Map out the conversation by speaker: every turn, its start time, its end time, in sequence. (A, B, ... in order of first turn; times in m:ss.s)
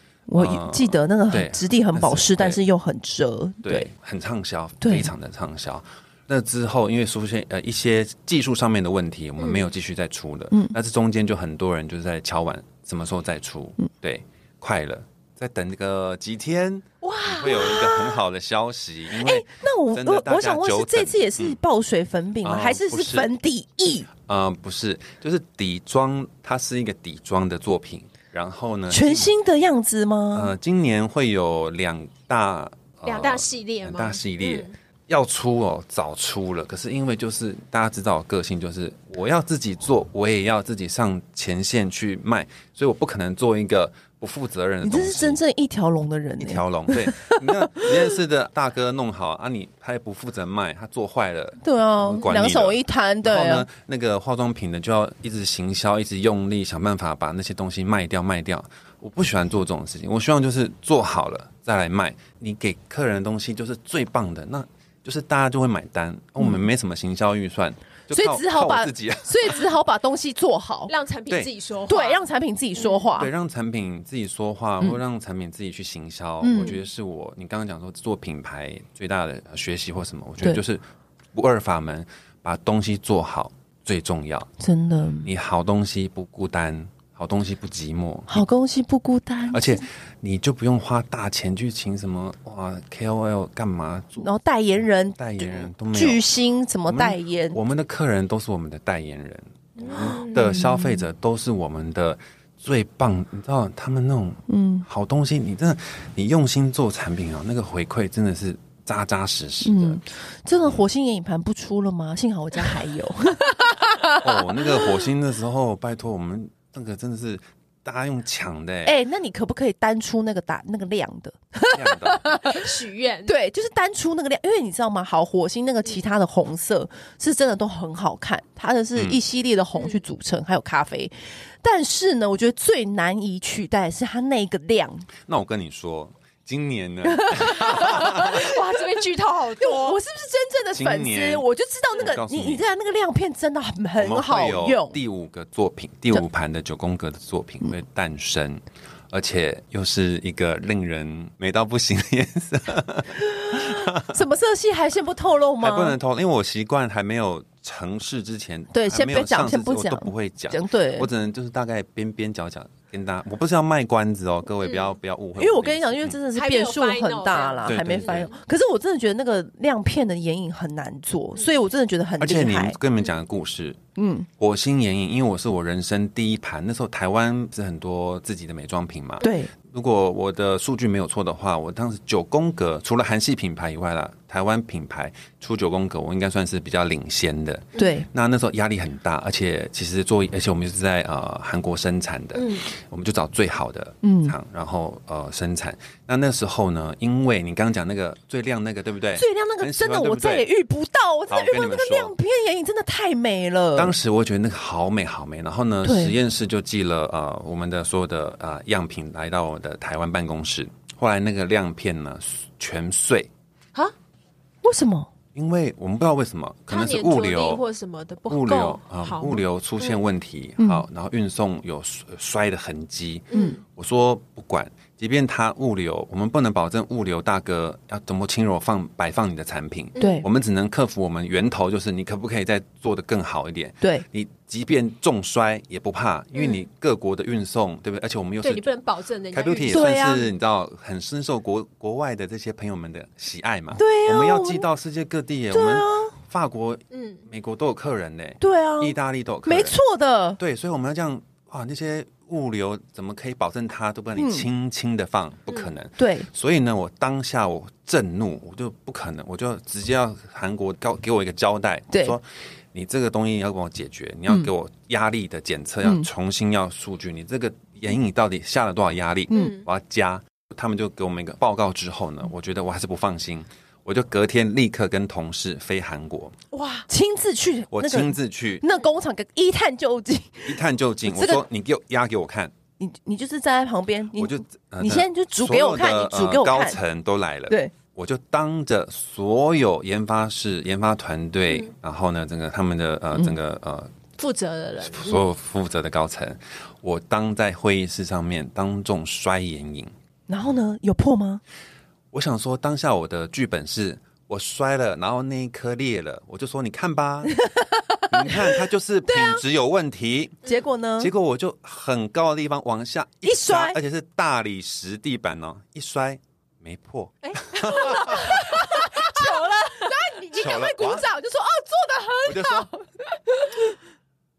0:00.3-0:03.9 A
0:00.4-0:02.6 B
0:03.6-0:21.6 B
0:04.8-0:05.1 A
0:09.4-0:09.7 C
0:17.0-0:18.2 C
0:19.1-0:24.1 A
0:22.4-0:23.3 B
0:24.2-0:29.4 B
0:28.9-0:30.5 A
0:30.3-0:45.4 B
0:33.0-0:34.7 C
0:44.8-0:47.9 A
0:46.4-1:09.6 B
0:51.6-0:53.7 A
1:08.1-1:10.9 A
1:10.9-1:13.1 C
1:11.9-1:13.3 A
1:13.2-1:24.5 B
1:16.4-1:16.8 A
1:24.6-1:25.3 A
1:25.2-1:28.4 B
1:28.3-1:29.8 A
1:29.5-1:34.3 B
1:34.2-1:37.6 A
1:35.2-1:36.3 B
1:36.9-1:50.0 B
1:39.8-1:40.7 C
1:40.5-1:41.0 A
1:44.5-1:44.9 A
1:49.6-1:55.0 A
1:54.2-1:59.0 B
1:58.8-2:02.7 A
2:01.7-2:02.4 B
2:02.5-2:03.3 C
2:03.3-2:15.1 A
2:09.8-2:10.0 C
2:15.3-2:18.6 B
2:17.1-2:18.6 A
2:17.6-2:20.0 C
2:19.6-2:25.0 A
2:20.7-2:22.7 B
2:24.0-2:34.2 B
2:33.5-2:36.0 A
2:35.6-2:46.2 B
2:38.7-2:41.1 A
2:44.6-2:44.9 C
2:45.4-2:52.8 A
2:46.3-2:48.4 C
2:47.7-2:48.3 B
2:52.2-2:53.8 B
2:54.0-2:54.3 A
2:54.4-3:20.5 B
2:59.2-2:59.5 A
3:07.8-3:08.1 A
3:12.4-3:12.7 C
3:14.0-3:14.4 A
3:19.2-3:24.0 A
3:21.3-3:22.2 B
3:23.8-3:33.3 B
3:25.8-3:26.2 A
3:34.6-3:35.1 A
3:35.4-3:37.6 B
3:36.7-3:40.0 C
3:38.3-3:58.7 B
3:40.6-3:40.8 A
3:43.3-3:43.6 C
3:43.3-3:43.6 A
3:50.0-3:50.2 C
3:50.0-3:50.3 A
3:58.4-3:59.9 C
3:59.3-4:09.8 B
3:59.7-4:00.3 A
4:03.8-4:04.7 A
4:05.5-4:06.2 A
4:06.9-4:07.2 C
4:08.4-4:10.4 A
4:10.4-4:36.4 B
4:14.2-4:14.5 A
4:16.0-4:16.3 A
4:21.9-4:22.2 A
4:29.3-4:29.6 A
4:29.3-4:29.7 C
4:36.5-4:36.9 C
4:36.9-4:41.4 A
4:37.7-4:38.6 B
4:40.5-4:42.5 B
4:42.8-4:46.8 A
4:44.1-4:53.9 B
4:54.2-4:55.2 C
4:54.8-4:59.9 B
5:00.3-5:01.4 A
5:02.1-5:07.4 B
5:07.5-5:09.4 A
5:08.1-5:10.4 B
5:10.4-5:11.1 A
5:11.0-5:18.6 B
5:13.2-5:13.8 A
5:17.2-5:20.1 C
5:18.1-5:23.6 A
5:20.3-5:21.1 B
5:22.3-5:22.7 B